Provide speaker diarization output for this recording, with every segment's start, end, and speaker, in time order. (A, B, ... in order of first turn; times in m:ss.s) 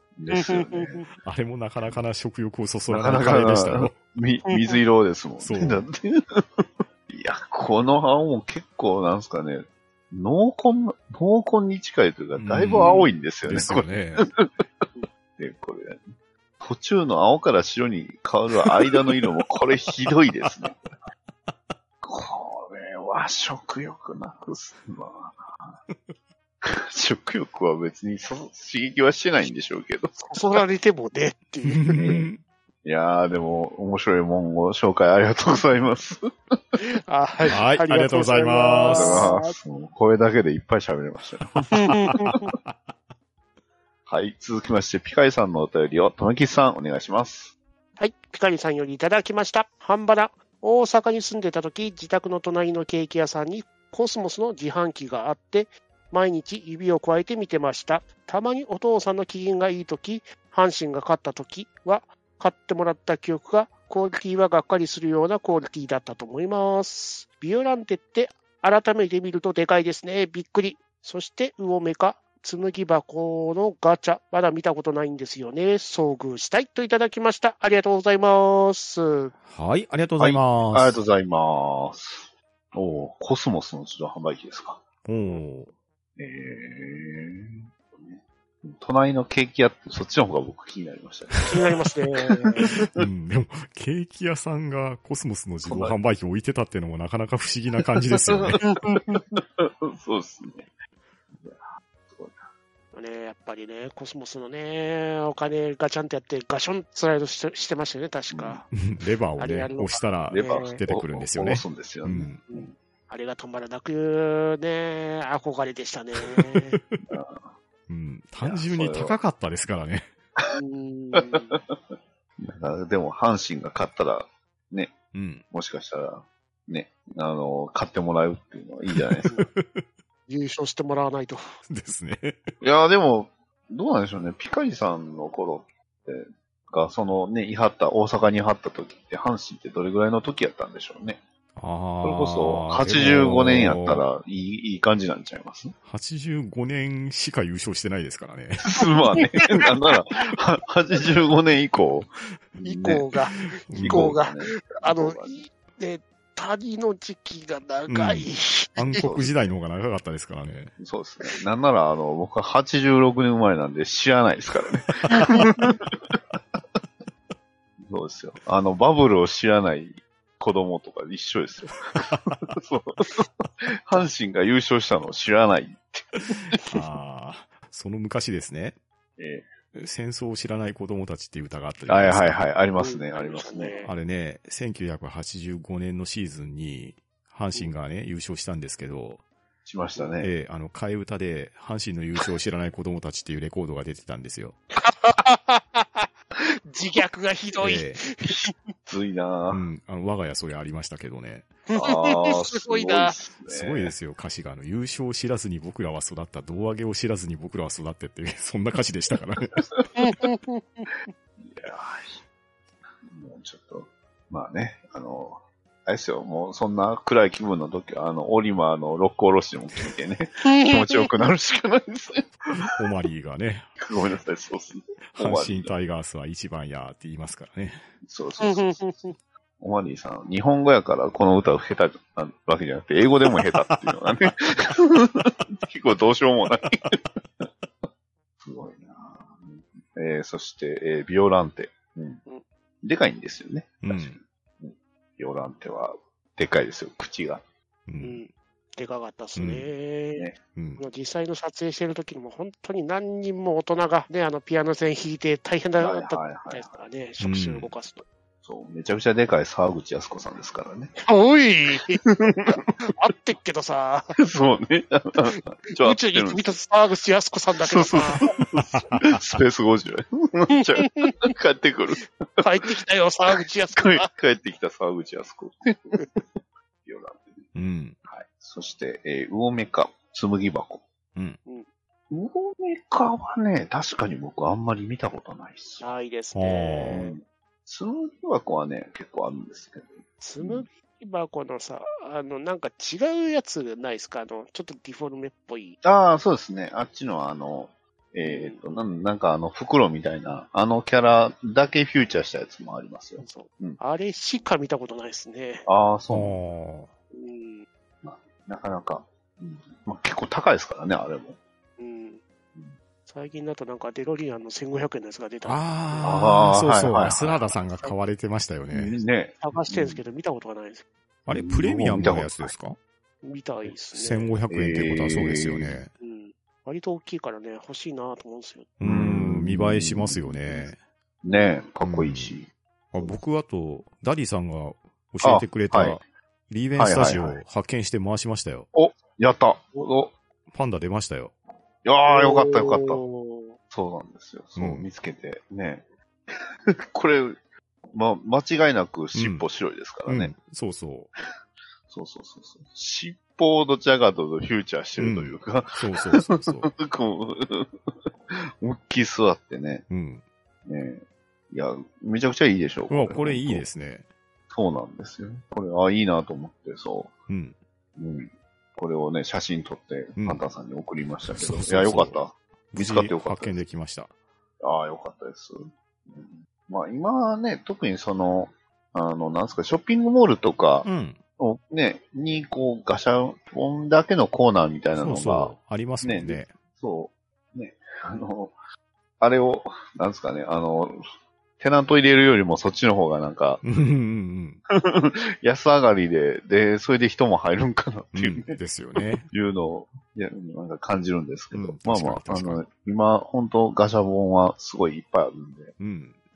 0:00.2-0:01.1 A
0:00.3-0:01.1 B
0:01.2-0:04.0 C
0:02.9-0:14.5 A
0:04.5-0:04.8 B
0:05.4-0:05.9 C
0:12.4-0:14.3 C
0:15.4-0:20.8 A
0:22.0-0:25.8 A
0:26.6-0:30.6 A
0:30.2-0:32.0 B
0:31.6-0:32.4 C
0:31.9-0:32.3 A
0:32.8-0:36.8 A
0:36.8-0:39.6 B
0:37.5-0:39.3 C
0:38.9-0:42.0 A
0:41.6-0:42.8 C
0:41.7-0:42.5 B
0:44.1-0:47.5 A
0:48.0-1:19.3 B
1:19.4-1:21.0 C
1:20.2-1:24.8 A
1:25.0-1:25.7 C
1:26.2-1:33.1 A
1:31.5-1:32.8 B
1:33.0-1:38.6 C
1:35.6-1:36.0 A
1:38.2-1:40.7 A
1:38.7-1:39.2 B
1:41.4-1:42.5 A
1:42.9-1:48.7 B
1:48.3-1:48.6 A
1:48.7-1:52.4 C
1:49.4-1:50.8 B
1:50.3-1:52.4 A
1:52.5-1:56.8 B
1:56.4-1:57.0 C
1:57.1-1:57.5 A
1:57.9-2:00.1 C
1:58.4-1:59.2 A
2:00.6-2:01.6 B
2:01.2-2:01.8 A
2:02.4-2:05.0 A
2:05.1-2:05.4 C
2:05.5-2:09.3 A
2:08.9-2:09.8 C
2:10.3-2:11.6 B
2:11.7-2:12.5 C
2:12.6-2:21.2 A
2:21.6-2:24.0 C
2:22.0-2:25.8 A
2:25.8-2:28.7 C
2:28.6-2:33.1 A
2:29.2-2:29.5 B
2:32.6-2:39.1 B
2:33.3-2:34.2 C
2:33.7-2:35.4 A
2:37.9-2:40.7 C
2:38.9-2:39.4 A
2:40.8-2:46.2 A
2:45.0-2:45.3 C
2:47.8-2:56.6 A
2:52.0-2:52.4 C
2:56.5-2:58.8 C
2:59.2-2:59.5 A
2:59.8-3:02.5 C
3:01.9-3:03.8 A
3:02.8-3:03.9 B
3:03.8-3:09.2 C
3:09.6-3:10.3 A
3:10.2-3:14.6 C
3:14.8-3:16.1 B
3:16.7-3:18.7 B
3:17.6-3:18.0 C
3:18.9-3:19.6 A
3:19.5-3:21.5 C
3:21.7-3:23.2 B
3:21.8-3:24.0 A
3:23.5-3:29.6 C
3:30.0-3:31.0 B
3:31.4-3:32.2 A
3:33.0-3:42.7 A
3:40.4-3:41.1 B
3:42.6-3:43.7 C
3:43.8-3:45.7 A
3:45.1-3:47.9 C
3:48.1-3:48.9 A
3:48.4-3:49.2 B
3:49.6-3:57.5 A
3:58.4-4:02.2 A
4:02.8-4:07.4 A
4:03.8-4:04.2 C
4:07.9-4:08.2 C
4:08.0-4:18.0 B
4:09.4-4:09.7 C
4:10.6-4:10.8 C
4:15.8-4:16.7 A
4:17.2-4:17.7 C
4:18.4-4:21.0 A
4:21.0-4:24.2 B
4:22.1-4:22.6 A
4:24.2-4:26.4 A
4:25.2-4:28.3 B
4:27.6-4:32.8 A
4:28.6-4:29.2 C
4:30.5-4:31.3 B
4:32.4-4:34.1 B
4:33.3-4:37.5 A
4:37.5-4:38.0 C
4:38.1-4:40.9 A
4:42.1-4:45.9 A
4:45.8-4:47.2 B
4:46.4-4:47.1 C
4:46.9-4:50.7 A
4:50.2-4:55.8 B
4:55.8-5:03.8 A
4:58.2-4:58.6 B
5:03.2-5:05.7 B
5:05.7-5:06.4 A
5:06.1-5:06.9 C
5:07.1-5:07.7 B
5:08.0-5:11.4 A
5:11.8-5:12.2 B
5:13.1-5:15.6 B
5:15.5-5:18.9 C
5:16.0-5:17.6 A
5:18.7-5:20.0 A
5:19.4-5:20.8 B
5:21.3-5:22.8 C
5:21.3-5:22.5 A
5:23.2-5:24.3 B
5:23.9-5:25.9 C
5:24.5-5:25.8 A
5:26.0-5:28.7 B
5:28.8-5:30.8 C
5:28.8-5:30.7 A
5:31.2-5:33.2 A
5:31.8-5:32.4 C
5:32.9-5:38.7 C
5:35.2-5:36.0 A
5:36.8-5:37.4 A
5:38.7-5:40.1 A
5:40.5-5:41.3 C
5:41.8-5:43.0 A
5:42.1-5:43.5 B
5:43.7-5:47.4 A
5:44.6-5:44.9 C
5:47.9-5:50.3 A
5:49.1-5:49.5 C
5:50.1-5:51.1 C
5:51.9-5:59.9 A
5:55.0-5:56.7 C
5:59.9-6:00.2 C
6:00.6-6:03.7 A
6:02.9-6:04.1 C
6:04.5-6:07.1 A
6:07.3-6:07.6 C
6:08.0-6:13.6 A
6:10.2-6:10.5 C
6:11.2-6:12.2 C
6:12.7-6:14.1 C
6:14.6-6:20.9 A
6:20.8-6:21.2 C
6:21.4-6:28.6 A
6:25.0-6:26.5 C
6:29.2-6:31.0 A
6:31.6-6:33.6 A
6:33.6-6:34.6 C
6:34.7-6:38.6 A
6:38.1-6:39.3 C
6:39.3-6:45.8 A
6:41.5-6:42.7 C
6:45.8-6:46.2 C